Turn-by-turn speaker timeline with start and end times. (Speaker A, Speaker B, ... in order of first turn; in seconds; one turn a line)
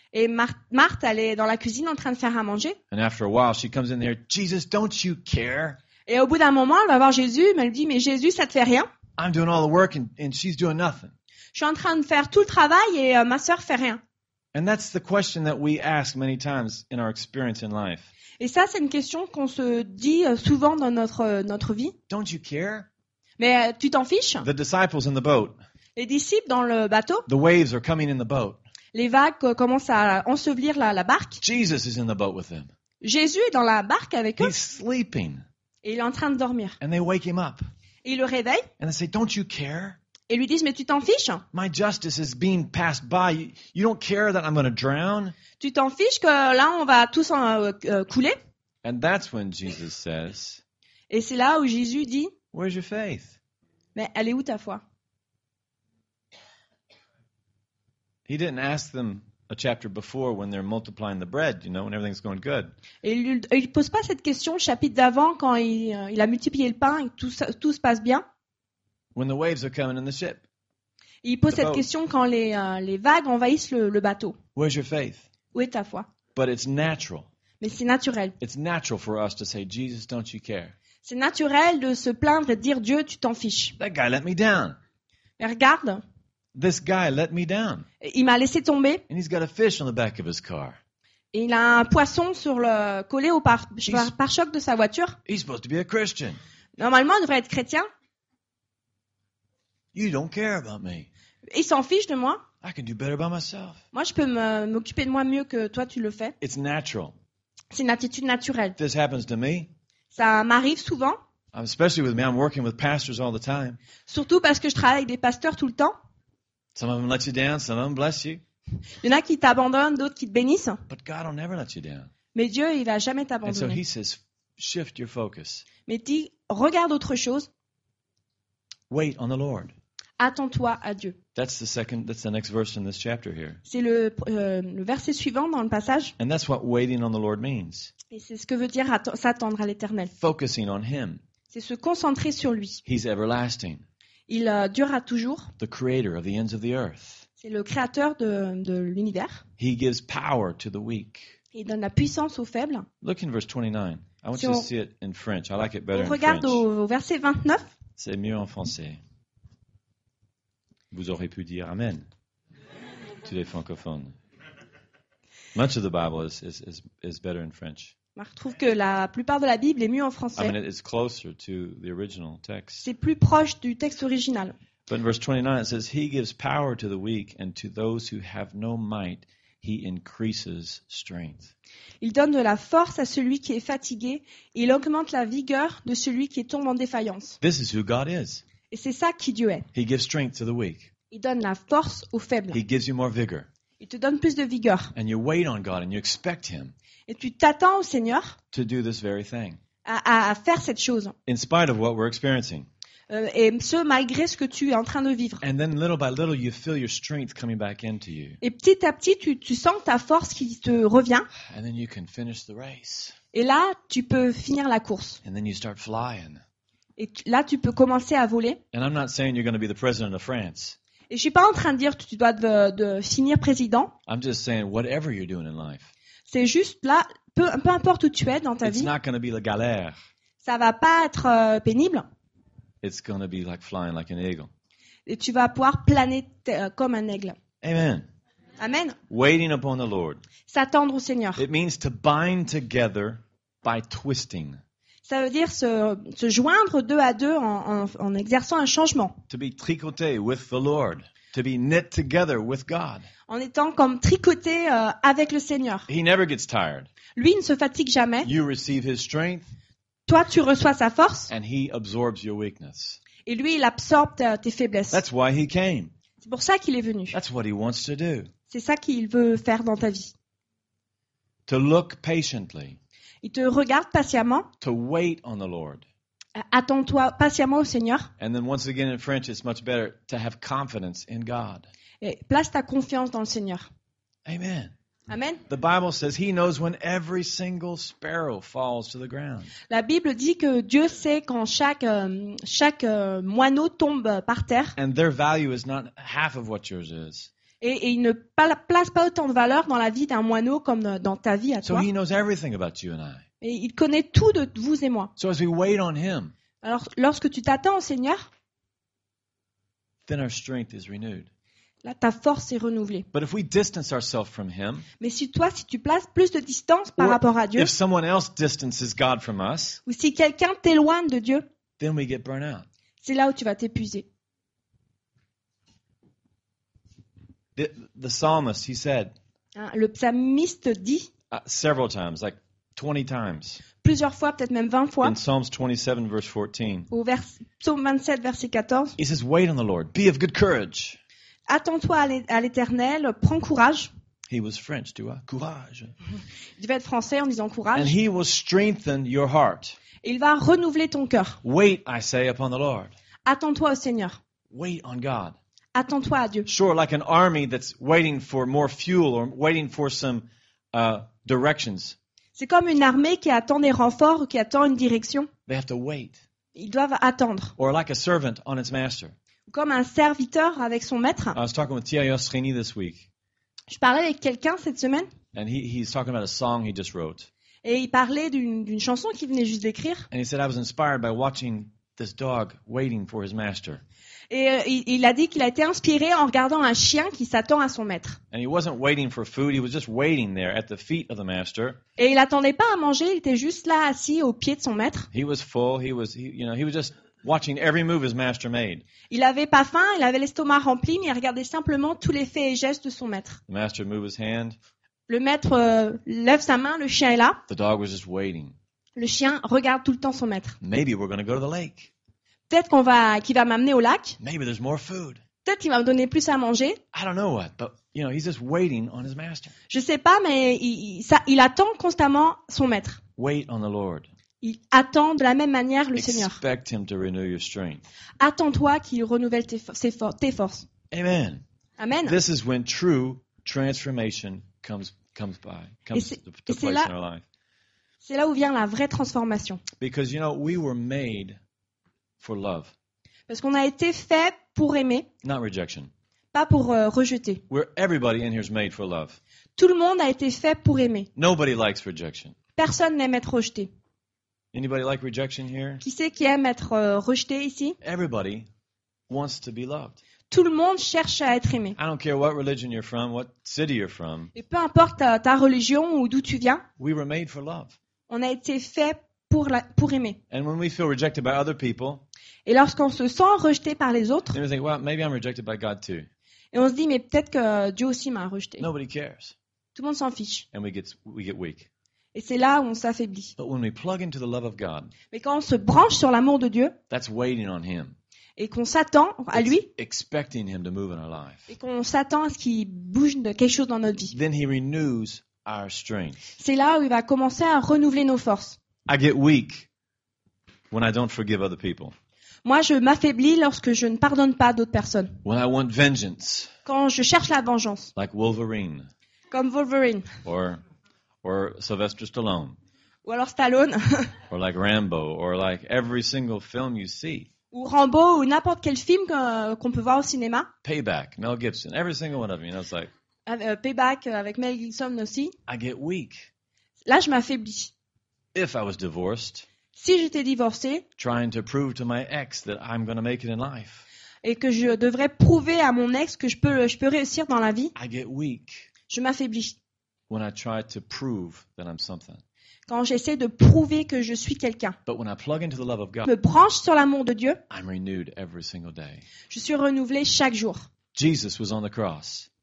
Speaker A: 0.1-2.8
Speaker B: 2.9-5.8
Speaker A: 6.1-8.9
Speaker B: 9.2-11.1
Speaker A: 11.5-14.0
Speaker B: 14.5-18.1
Speaker A: 18.4-21.9
Speaker B: 22.1-22.9
Speaker A: 23.4-24.5
Speaker B: 24.4-25.6
Speaker A: 26.0-27.3
Speaker B: 27.3-28.6
Speaker A: 28.9-31.4
Speaker B: 31.4-32.7
Speaker A: 33.0-34.5
Speaker B: 34.4-35.4
Speaker A: 35.8-36.8
Speaker B: 36.8-37.6
Speaker A: 38.0-38.7
Speaker B: 38.8-40.0
Speaker A: 40.3-41.4
Speaker B: 41.5-45.4
Speaker A: 45.6-48.4
Speaker B: 48.8-50.6
Speaker A: 51.1-52.3
Speaker B: 52.5-53.4
Speaker A: 54.0-54.8
Speaker B: 58.3-62.7
Speaker A: 63.0-68.2
Speaker B: 69.2-70.4
Speaker A: 71.2-74.4
Speaker B: 71.5-71.8
Speaker B: 74.6-75.3
Speaker A: 75.5-76.1
Speaker B: 76.3-77.3
Speaker A: 77.6-78.4
Speaker B: 78.4-80.7
Speaker A: 81.0-83.8
Speaker B: 83.8-84.8
Speaker A: 85.4-86.0
Speaker B: 86.5-87.9
Speaker A: 88.0-89.0
Speaker B: 89.1-90.8
Speaker A: 91.3-95.2
Speaker B: 93.9-94.1
Speaker B: 95.3-96.4
Speaker A: 96.8-97.9
Speaker B: 99.9-101.1
Speaker A: 101.5-102.4
Speaker B: 102.6-103.8
Speaker A: 103.9-106.3
Speaker B: 106.4-107.2
Speaker A: 107.7-108.8
Speaker B: 108.8-109.7
Speaker A: 110.1-111.2
Speaker B: 111.5-113.8
Speaker A: 114.1-115.9
Speaker B: 116.8-118.4
Speaker A: 119.0-120.8
Speaker B: 120.9-122.1
Speaker A: 122.3-123.8
Speaker B: 123.5-125.7
Speaker A: 125.9-127.5
Speaker B: 128.9-129.7
Speaker A: 130.2-131.2
Speaker B: 131.4-133.6
Speaker A: 133.7-136.2
Speaker B: 136.2-137.9
Speaker A: 138.1-140.1
Speaker B: 140.2-141.2
Speaker A: 141.5-142.8
Speaker B: 142.9-143.8
Speaker A: 144.3-145.5
Speaker B: 145.6-147.2
Speaker A: 147.4-149.4
Speaker B: 149.6-151.4
Speaker A: 151.5-152.9
Speaker B: 153.0-156.6
Speaker A: 154.4-154.7
Speaker A: 155.9-157.7
Speaker B: 158.0-159.0
Speaker B: 160.9-162.1
Speaker B: 163.2-164.2
Speaker B: 165.6-167.9
Speaker A: 168.2-170.6
Speaker B: 170.4-172.9
Speaker A: 172.8-174.6
Speaker B: 174.9-181.5
Speaker A: 182.0-187.4
Speaker B: 187.4-188.4
Speaker A: 188.7-189.7
Speaker B: 189.7-190.9
Speaker A: 191.1-192.6
Speaker B: 192.5-193.5
Speaker A: 193.8-194.9
Speaker B: 194.9-196.7
Speaker A: 197.1-198.4
Speaker B: 198.5-199.6
Speaker A: 199.8-201.2
Speaker B: 201.3-202.7
Speaker A: 203.1-205.4
Speaker B: 205.4-208.4
Speaker A: 208.4-211.3
Speaker B: 211.5-213.2
Speaker A: 213.3-215.2
Speaker B: 215.2-216.4
Speaker A: 217.0-218.6
Speaker B: 218.7-220.8
Speaker A: 221.1-223.9
Speaker B: 224.1-225.9
Speaker A: 226.3-228.9
Speaker B: 228.6-230.0
Speaker A: 230.4-232.1
Speaker B: 232.8-234.5
Speaker A: 235.1-237.4
Speaker B: 237.6-238.1
Speaker A: 238.6-239.0
Speaker B: 239.1-240.2
Speaker A: 240.5-241.4
Speaker B: 241.4-244.6
Speaker A: 245.1-249.2
Speaker B: 249.3-253.1
Speaker A: 253.3-255.9
Speaker B: 255.9-256.9
Speaker A: 257.2-258.3
Speaker B: 258.2-259.5
Speaker A: 260.1-261.3
Speaker B: 261.3-263.0
Speaker A: 263.2-265.0
Speaker B: 264.9-265.9
Speaker A: 266.2-267.2
Speaker B: 267.1-268.3
Speaker A: 268.5-270.1
Speaker B: 271.5-272.8
Speaker A: 273.2-274.5
Speaker B: 274.6-275.9
Speaker A: 276.4-278.1
Speaker B: 278.2-281.7
Speaker A: 282.0-283.7
Speaker B: 284.3-284.7
Speaker A: 285.1-285.4
Speaker B: 285.5-289.5
Speaker A: 289.7-294.8
Speaker B: 294.8-297.3
Speaker A: 297.6-301.9
Speaker B: 301.6-303.2
Speaker A: 303.4-305.1
Speaker B: 305.2-306.3
Speaker A: 306.6-308.3
Speaker B: 310.1-311.3
Speaker A: 311.8-313.1
Speaker B: 313.1-314.9
Speaker A: 315.0-317.7
Speaker B: 317.0-319.8
Speaker A: 319.9-321.4
Speaker B: 321.8-322.7
Speaker A: 323.0-324.1
Speaker B: 327.6-329.1
Speaker A: 329.6-331.1
Speaker B: 331.3-333.6
Speaker A: 333.8-335.2
Speaker B: 335.0-336.9
Speaker A: 336.9-339.0
Speaker B: 339.0-341.0
Speaker A: 341.5-343.9
Speaker B: 344.3-345.9
Speaker A: 346.6-347.9
Speaker B: 347.7-349.8
Speaker A: 350.0-351.4
Speaker B: 351.4-352.9
Speaker A: 353.2-354.2
Speaker B: 354.5-355.4
Speaker A: 355.8-356.5
Speaker B: 356.5-362.0
Speaker A: 362.4-365.3
Speaker B: 365.5-366.2
Speaker A: 366.6-367.5
Speaker B: 367.6-369.1
Speaker A: 369.5-371.4
Speaker B: 371.4-373.1
Speaker A: 373.7-375.1
Speaker B: 375.3-377.3
Speaker A: 377.6-380.1
Speaker B: 380.1-383.8
Speaker A: 384.3-388.2
Speaker B: 388.3-391.8
Speaker A: 392.0-395.1
Speaker B: 395.1-398.8
Speaker A: 399.1-403.4
Speaker B: 403.5-404.6
Speaker A: 405.1-407.4
Speaker B: 407.5-408.6
Speaker A: 409.0-410.6
Speaker B: 410.6-411.9
Speaker A: 412.5-414.2
Speaker B: 414.2-415.2
Speaker A: 415.4-416.8
Speaker B: 416.9-419.5
Speaker A: 419.7-423.0
Speaker B: 423.2-424.1
Speaker A: 424.4-426.4
Speaker B: 426.0-427.9
Speaker A: 428.2-430.7
Speaker B: 430.9-431.4
Speaker A: 431.8-432.2
Speaker B: 432.1-437.2
Speaker A: 435.9-436.9
Speaker A: 438.0-439.6
Speaker B: 439.8-441.4
Speaker B: 442.2-442.7
Speaker A: 443.3-445.1
Speaker B: 445.2-445.9
Speaker A: 446.3-447.4
Speaker B: 447.5-449.2
Speaker A: 449.6-451.1
Speaker B: 451.2-452.4
Speaker A: 452.6-453.7
Speaker B: 454.5-455.8
Speaker A: 455.8-457.8
Speaker B: 457.8-458.5
Speaker B: 459.1-460.0
Speaker A: 460.3-461.8
Speaker B: 461.8-464.3
Speaker A: 464.3-466.6
Speaker B: 466.8-467.8
Speaker A: 468.1-470.2
Speaker B: 470.3-472.1
Speaker A: 472.5-474.4
Speaker B: 474.3-476.1
Speaker A: 476.5-478.7
Speaker B: 478.6-479.4
Speaker A: 479.8-480.5
Speaker B: 480.5-481.7
Speaker A: 482.1-483.4
Speaker B: 483.4-484.9
Speaker A: 485.1-486.8
Speaker B: 486.9-487.9
Speaker A: 488.4-489.7
Speaker B: 489.3-491.5
Speaker A: 491.5-494.1
Speaker B: 494.1-496.3
Speaker A: 496.4-498.6
Speaker B: 498.9-499.7
Speaker B: 500.7-501.9
Speaker A: 502.4-505.2
Speaker B: 505.2-506.5
Speaker A: 506.7-507.9
Speaker B: 507.9-508.9
Speaker A: 509.3-510.1
Speaker B: 510.2-510.6
Speaker B: 511.2-512.6
Speaker A: 513.0-514.1
Speaker B: 514.3-517.3
Speaker A: 517.5-520.5
Speaker B: 520.6-522.9
Speaker A: 523.3-525.4
Speaker B: 525.5-526.3
Speaker A: 526.9-527.7
Speaker B: 528.3-529.5
Speaker A: 529.8-530.9
Speaker B: 531.0-533.9
Speaker A: 534.2-537.7
Speaker B: 537.8-538.7
Speaker A: 538.9-539.6
Speaker B: 540.1-542.2
Speaker A: 542.7-544.8
Speaker B: 544.9-546.1
Speaker A: 546.1-547.4
Speaker B: 547.5-549.0
Speaker A: 549.3-550.7
Speaker B: 551.0-552.3